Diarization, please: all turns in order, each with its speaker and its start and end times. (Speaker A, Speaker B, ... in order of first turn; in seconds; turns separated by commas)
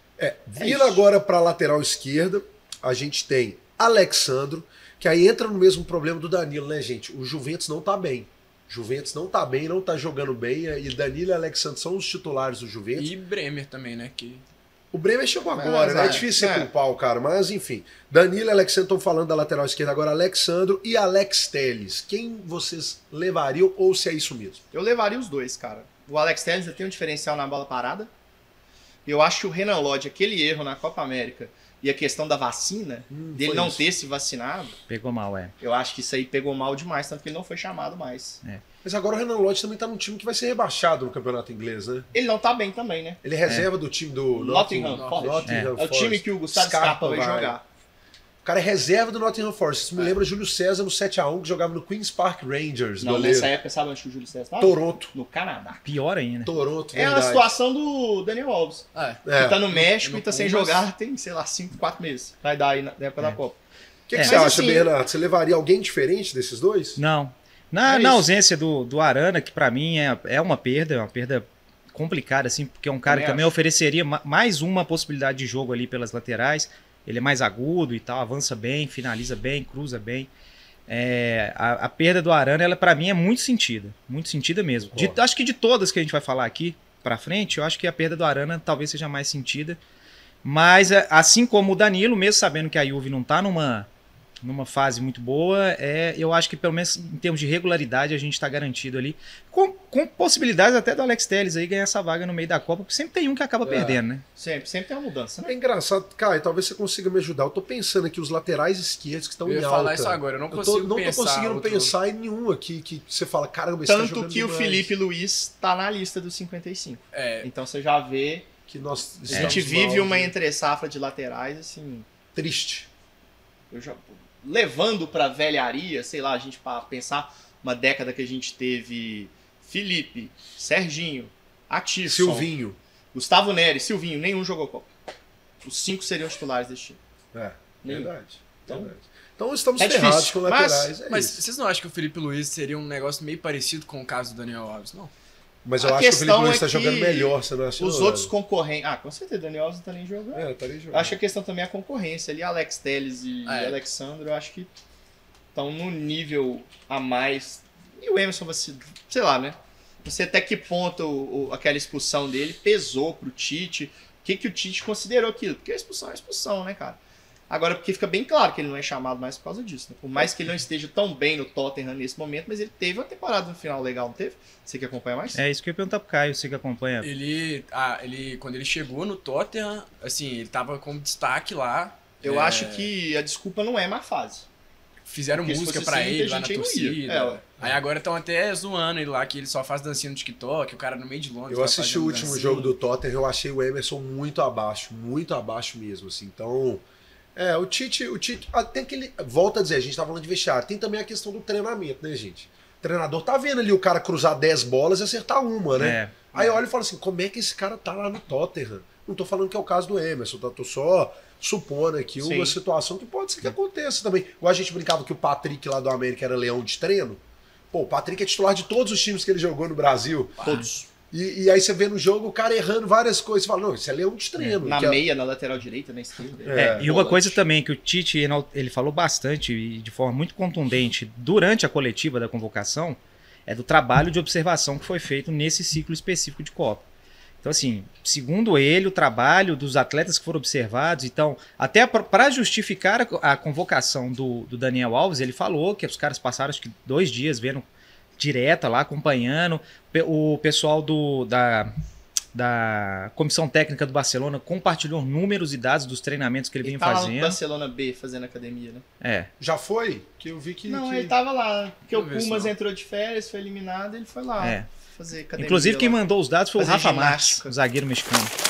Speaker A: 0.2-13.1, Speaker B: 0.6-1.0, Speaker C: 12.9-14.4, Speaker A: 14.9-24.6, Speaker B: 15.6-16.7, Speaker B: 24.7-28.1, Speaker B: 29.1-34.8, Speaker A: 33.1-33.9, Speaker D: 34.9-35.5, Speaker B: 35.6-38.4, Speaker A: 38.8-42.1, Speaker B: 42.1-43.2, Speaker A: 43.2-47.6, Speaker B: 44.3-47.6, Speaker C: 44.9-45.4, Speaker D: 45.5-45.7, Speaker A: 48.4-53.5, Speaker B: 53.0-55.9, Speaker A: 54.6-55.1, Speaker D: 55.9-56.5, Speaker A: 56.5-57.5, Speaker B: 56.9-63.6, Speaker C: 59.0-60.9, Speaker A: 59.2-59.6, Speaker A: 64.1-67.0, Speaker D: 64.1-64.5, Speaker B: 64.2-64.9, Speaker D: 67.0-80.3, Speaker B: 67.8-68.3, Speaker B: 73.1-73.5, Speaker D: 80.9-89.8, Speaker A: 84.9-85.2, Speaker D: 90.4-93.9, Speaker D: 94.4-104.2, Speaker C: 103.7-104.0, Speaker B: 104.4-105.5, Speaker A: 105.4-114.9, Speaker C: 109.5-111.9, Speaker B: 113.8-118.5, Speaker C: 117.1-117.5, Speaker A: 118.7-120.3, Speaker B: 119.3-122.1, Speaker D: 119.3-119.6, Speaker A: 122.3-122.9, Speaker B: 123.7-132.5, Speaker A: 132.1-132.8, Speaker B: 133.1-134.9, Speaker B: 135.6-137.0, Speaker A: 137.3-141.4, Speaker B: 137.8-138.1, Speaker B: 138.7-138.9, Speaker B: 139.8-140.9, Speaker C: 141.1-145.1, Speaker A: 145.7-148.3, Speaker B: 145.8-154.7, Speaker A: 150.3-151.2, Speaker C: 153.5-153.8, Speaker B: 155.6-175.4, Speaker D: 175.3-177.1, Speaker C: 177.0-182.9, Speaker B: 182.2-184.5, Speaker C: 185.1-192.7, Speaker B: 185.4-187.4, Speaker A: 191.5-196.8, Speaker B: 192.2-192.6, Speaker A: 197.4-217.2, Speaker D: 205.8-206.4, Speaker B: 212.2-212.6, Speaker A: 217.7-220.6, Speaker C: 220.4-220.7, Speaker B: 220.4-220.9, Speaker A: 221.1-225.0, Speaker B: 224.6-227.4, Speaker A: 226.4-226.9, Speaker D: 226.6-236.9, Speaker D: 237.4-247.7, Speaker D: 248.2-251.7, Speaker D: 252.3-257.4, Speaker B: 256.6-258.9, Speaker D: 259.0-259.3, Speaker A: 259.4-261.1, Speaker B: 260.7-266.0, Speaker C: 261.9-262.5, Speaker D: 264.4-264.7, Speaker D: 265.4-268.3, Speaker B: 266.6-267.6